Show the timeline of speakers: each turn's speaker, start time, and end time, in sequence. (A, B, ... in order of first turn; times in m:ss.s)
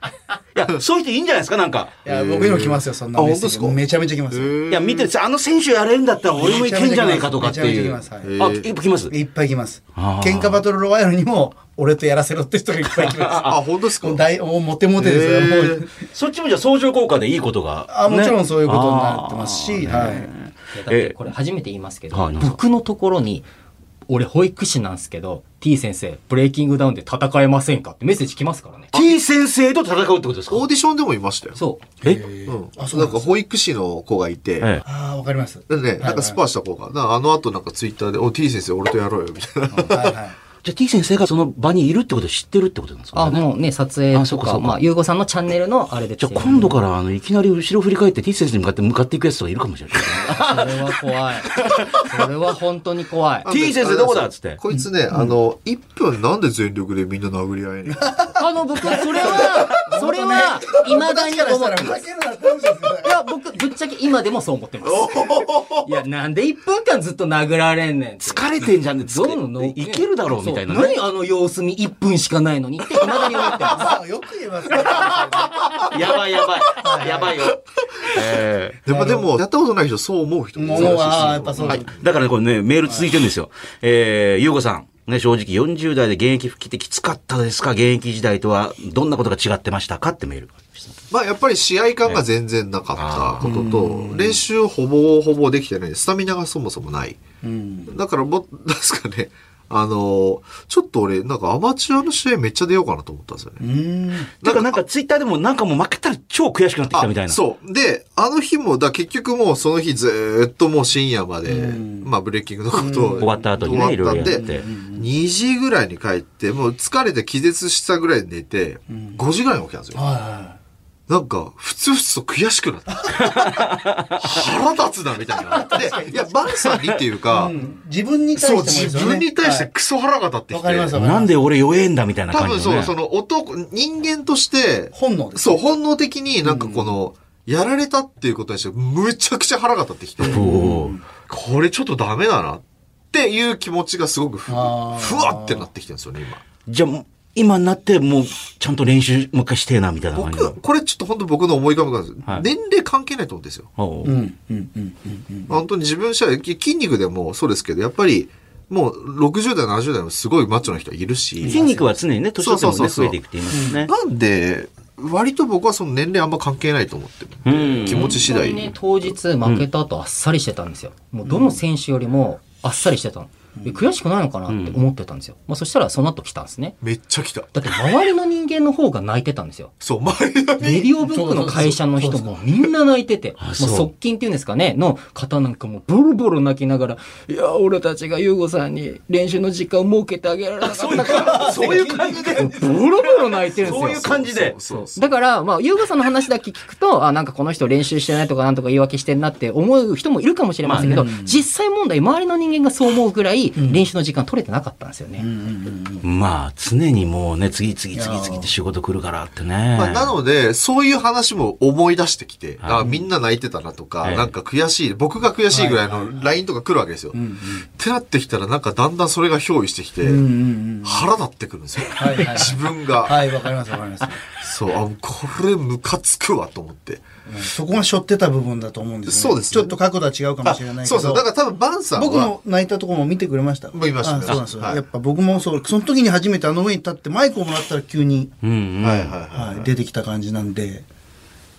0:00.6-0:02.0 A
0:02.0-0:04.6 B
0:02.1-0:03.8 C
0:04.3-0:05.1 C
0:04.7-0:09.1 A
0:06.4-0:08.3 B
0:08.2-0:08.7 C
0:09.1-0:15.9 B
0:10.0-0:10.6 A
0:13.0-0:13.6 A
0:13.4-0:14.2 C
0:15.0-0:15.9 C
0:16.0-0:21.2 A
0:17.9-0:20.3 B
0:20.7-0:23.5 D
0:22.1-0:22.6 A
0:24.1-0:28.9 D
0:28.9-0:30.7 A
0:30.5-0:31.6 C
0:31.6-0:31.8 D
0:32.0-0:33.3 B
0:32.5-0:34.8 C
0:34.8-0:36.4 B
0:35.7-0:40.2 C
0:39.7-0:40.4 B
0:40.6-0:43.4 A
0:43.1-0:46.8 D
0:44.1-0:44.8 A
0:46.2-0:50.9 A
0:50.1-0:53.5 D
0:51.6-0:52.1 A
0:53.4-0:58.4 C
0:53.5-0:54.6 A
0:54.7-0:55.3 B
0:57.9-1:03.2 B
0:58.4-1:02.0 D
1:03.0-1:08.4 D
1:04.9-1:05.9 C
1:08.2-1:11.0 A
1:09.0-1:14.0 D
1:13.6-1:15.8 B
1:15.8-1:18.8 A
1:16.8-1:17.4 B
1:17.3-1:22.1 C
1:18.9-1:19.3 B
1:20.6-1:22.0 B
1:21.6-1:31.0 A
1:31.1-1:37.2 C
1:33.0-1:33.5 A
1:33.4-1:34.4 B
1:37.4-1:37.9 B
1:37.9-1:43.6 C
1:43.6-1:44.3 B
1:44.4-1:44.8 C
1:44.4-1:47.4 A
1:46.9-2:00.0 C
1:51.4-1:52.1 B
1:52.7-1:55.1 B
1:53.2-1:54.6 A
1:58.9-1:59.2 B
1:59.9-2:00.6 B
2:01.1-2:07.6 C
2:03.1-2:03.4 B
2:03.2-2:04.2 A
2:05.5-2:06.4 B
2:07.3-2:09.7 B
2:08.4-2:11.0 C
2:10.5-2:11.4 B
2:11.0-2:13.0 A
2:12.3-2:20.6 C
2:14.9-2:15.6 B
2:16.4-2:17.0 B
2:20.2-2:21.0 B
2:20.2-2:21.0 A
2:21.2-2:26.4 C
2:24.5-2:25.7 B
2:26.7-2:30.6 A
2:30.2-2:33.7 C
2:33.8-2:34.2 A
2:34.0-2:35.6 B
2:35.5-2:41.7 C
2:41.4-2:43.9 A
2:41.5-2:41.8 D
2:42.4-2:48.8 C
2:43.5-2:43.8 B
2:47.4-2:48.2 A
2:47.9-2:56.8 D
2:51.2-2:51.6 B
2:53.6-2:53.9 B
2:54.5-2:54.8 A
2:56.8-2:57.6 C
2:57.5-2:59.7 D
2:59.8-3:00.9 C
3:00.6-3:14.1 D
3:01.0-3:02.4 B
3:03.4-3:03.9 A
3:10.6-3:12.7 A
3:11.2-3:12.5 B
3:13.6-3:15.1 C
3:13.6-3:14.6 A
3:14.7-3:25.3 D
3:20.6-3:21.1 A
3:20.8-3:21.4 B
3:23.6-3:23.9 B
3:25.2-3:26.0 B
3:26.0-3:30.1 A
3:27.9-3:28.5 B
3:29.7-3:37.2 C
3:34.0-3:34.3 A
3:35.5-3:36.3 B
3:37.1-3:37.7 B
3:37.8-3:40.2 C
3:40.0-3:41.1 B
3:40.8-3:43.2 C
3:42.0-3:44.2 B
3:44.4-3:47.0 C
3:47.3-3:51.3 B
3:49.1-3:49.8 C
3:50.4-3:52.3 C
3:52.0-3:58.3 B
3:53.7-3:54.8 C
3:58.4-3:59.2 A
3:58.8-3:59.7 C
3:59.3-4:00.8 B